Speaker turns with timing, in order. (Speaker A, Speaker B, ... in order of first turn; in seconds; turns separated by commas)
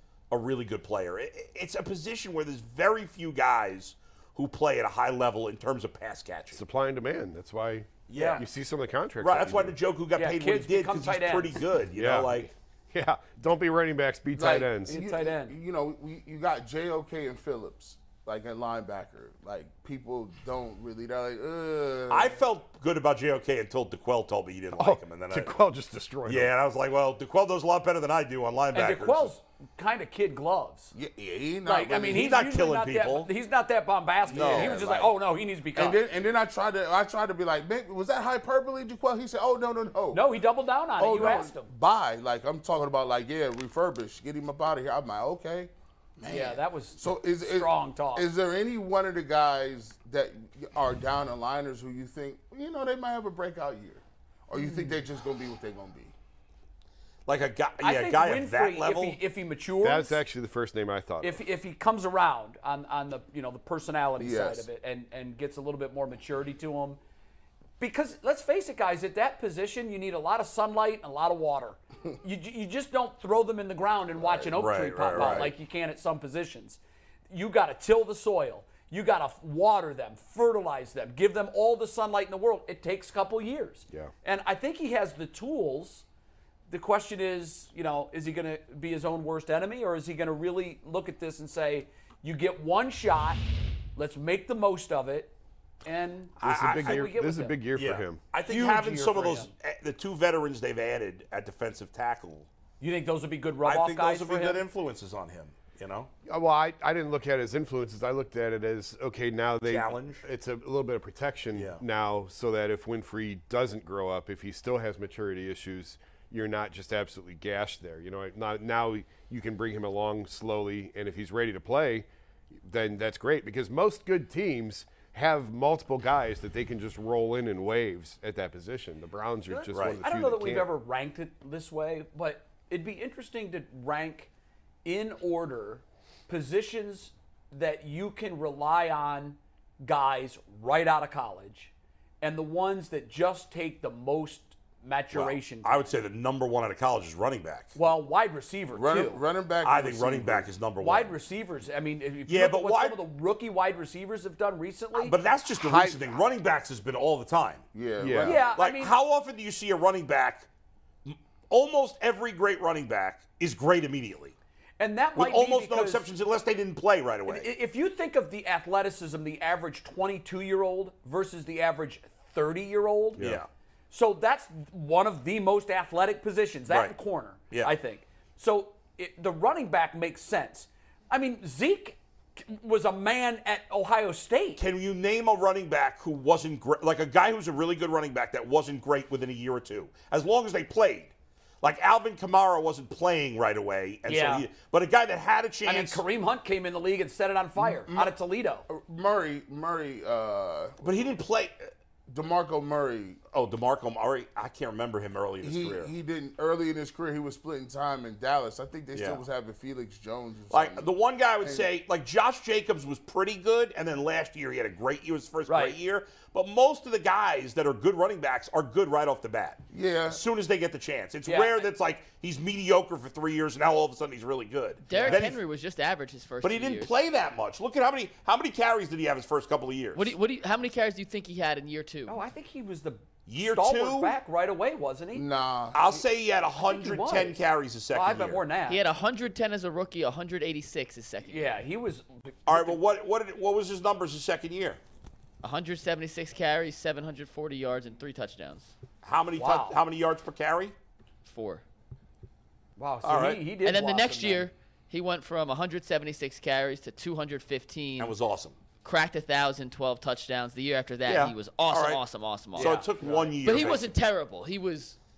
Speaker A: 0.3-6.6, Speaker B: 6.5-9.8, Speaker A: 8.1-8.4, Speaker C: 8.1-8.4, Speaker A: 9.2-12.5, Speaker C: 10.2-11.6, Speaker B: 11.9-15.0, Speaker D: 14.4-22.4, Speaker C: 14.4-15.6, Speaker A: 22.1-25.5, Speaker B: 24.8-26.5, Speaker A: 26.3-29.3, Speaker C: 28.7-30.9, Speaker D: 30.9-32.3, Speaker C: 31.6-36.0, Speaker A: 32.0-33.3, Speaker D: 34.3-35.1, Speaker A: 34.3-34.8, Speaker D: 35.7-40.3, Speaker C: 40.1-41.7, Speaker D: 41.0-56.1, Speaker C: 46.3-48.3, Speaker C: 54.5-54.9, Speaker A: 57.3-59.2, Speaker C: 57.8-60.2, Speaker B: 59.8-61.4, Speaker C: 61.2-67.0, Speaker D: 64.2-64.7, Speaker C: 67.8-76.8, Speaker D: 74.2-74.5, Speaker A: 74.5-75.5, Speaker D: 75.1-75.5, Speaker C: 77.3-86.0, Speaker C: 86.7-93.4, Speaker C: 93.9-95.3, Speaker C: 95.8-97.6, Speaker B: 96.4-98.2, Speaker A: 96.4-97.0, Speaker A: 97.7-102.5, Speaker C: 98.5-99.5, Speaker C: 102.8-104.6, Speaker A: 103.6-106.1, Speaker B: 106.3-122.1, Speaker A: 109.7-110.2, Speaker A: 111.5-111.8, Speaker B: 122.6-130.7, Speaker C: 129.5-134.3, Speaker A: 129.7-130.0, Speaker C: 134.8-145.9, Speaker A: 145.1-147.7, Speaker C: 147.7-149.2, Speaker D: 148.7-150.5, Speaker A: 149.6-151.1, Speaker C: 150.8-155.2, Speaker A: 152.3-153.0, Speaker A: 154.9-157.6, Speaker D: 155.6-156.2, Speaker D: 157.7-158.5, Speaker B: 158.0-158.4, Speaker C: 158.2-158.9, Speaker A: 158.6-160.5, Speaker A: 161.1-164.3, Speaker C: 164.8-166.1, Speaker A: 165.2-167.5, Speaker C: 167.3-173.3, Speaker A: 173.2-173.5, Speaker C: 173.9-184.6, Speaker A: 176.7-176.9, Speaker A: 184.6-196.0, Speaker C: 194.1-194.5, Speaker C: 195.6-198.7, Speaker D: 197.6-198.1, Speaker D: 198.7-201.1, Speaker A: 200.8-201.7, Speaker D: 202.1-203.2, Speaker A: 203.3-205.9, Speaker D: 205.4-210.9, Speaker A: 208.9-209.2, Speaker A: 210.5-225.4, Speaker C: 215.5-215.8, Speaker D: 219.7-220.2, Speaker C: 221.3-221.7, Speaker C: 224.8-225.3, Speaker E: 224.8-226.9, Speaker A: 226.4-230.1, Speaker E: 229.9-232.2, Speaker C: 232.1-235.2, Speaker A: 233.3-234.1, Speaker D: 235.1-236.0, Speaker A: 235.7-238.4, Speaker C: 236.6-238.8, Speaker E: 238.7-241.6, Speaker C: 241.3-242.8, Speaker A: 242.5-244.8, Speaker E: 245.4-248.7, Speaker A: 249.0-250.7, Speaker C: 249.4-249.8, Speaker E: 251.2-251.6, Speaker C: 252.8-254.5, Speaker A: 253.0-253.5, Speaker E: 253.6-258.1, Speaker A: 258.0-258.6, Speaker E: 258.8-262.9, Speaker A: 261.1-262.0, Speaker A: 262.5-263.9, Speaker C: 262.6-263.8, Speaker E: 263.4-265.0